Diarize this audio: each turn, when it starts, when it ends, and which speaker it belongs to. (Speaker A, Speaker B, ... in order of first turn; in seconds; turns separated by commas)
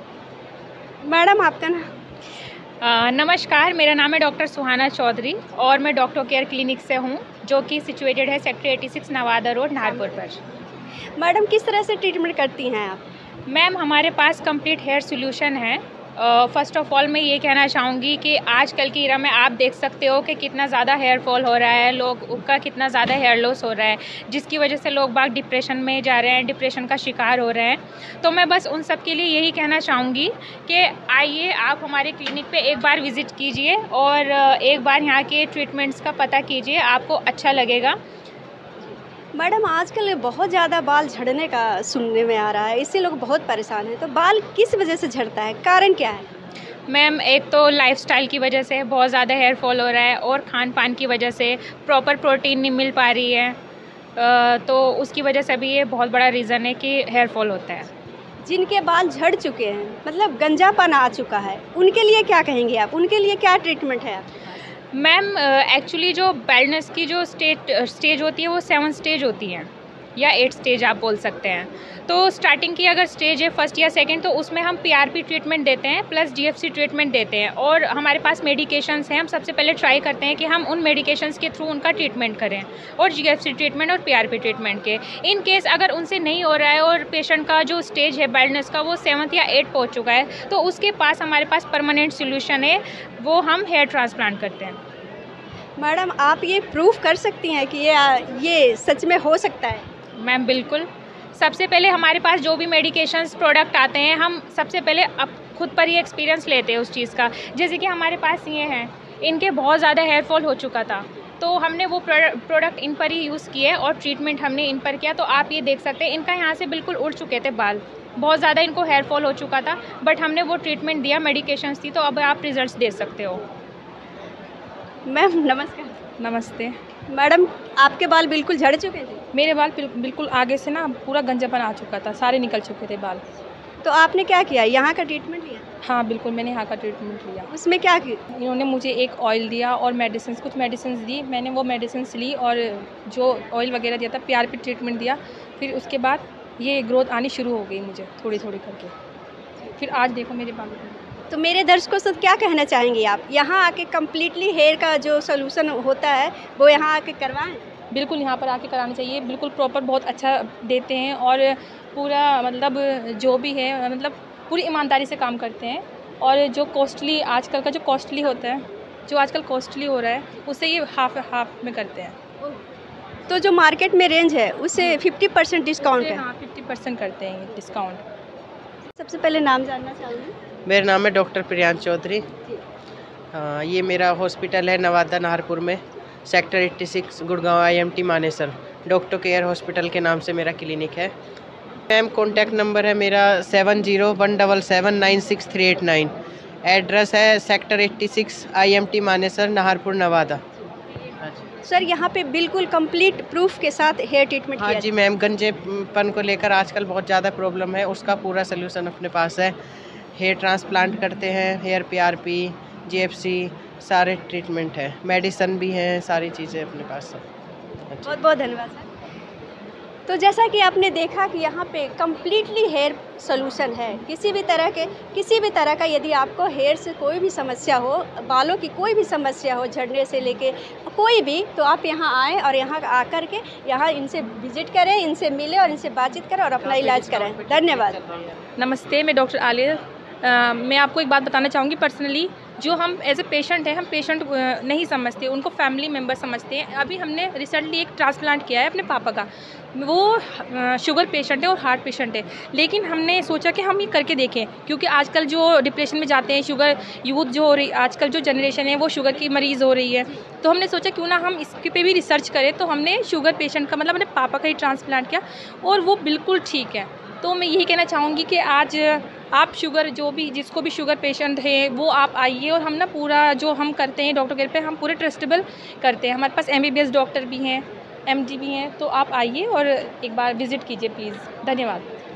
Speaker A: 1.0-1.8, Speaker B: 2.8-10.4, Speaker A: 11.2-13.0, Speaker B: 13.5-38.0, Speaker A: 39.4-46.2, Speaker B: 46.9-53.6, Speaker B: 54.1-57.9, Speaker A: 58.4-64.5, Speaker B: 64.9-94.8, Speaker A: 95.8-99.8, Speaker B: 100.2-123.4, Speaker A: 125.1-126.0, Speaker C: 126.2-126.8, Speaker A: 127.1-129.2, Speaker C: 129.3-133.2, Speaker A: 133.8-135.7, Speaker C: 135.8-137.5, Speaker A: 137.5-138.2, Speaker C: 138.3-148.9, Speaker C: 149.7-151.0, Speaker A: 151.3-157.6, Speaker C: 157.9-172.2, Speaker A: 173.3-176.2, Speaker C: 175.9-178.0, Speaker A: 179.0-180.3, Speaker D: 180.7-182.3, Speaker D: 183.3-191.1, Speaker D: 191.9-196.1, Speaker D: 196.7-200.4, Speaker A: 201.6-204.9, Speaker D: 204.6-209.5, Speaker D: 210.2-217.2, Speaker D: 217.9-218.2, Speaker A: 218.1-218.9, Speaker A: 220.1-238.0, Speaker D: 236.8-238.1, Speaker C: 238.6-281.9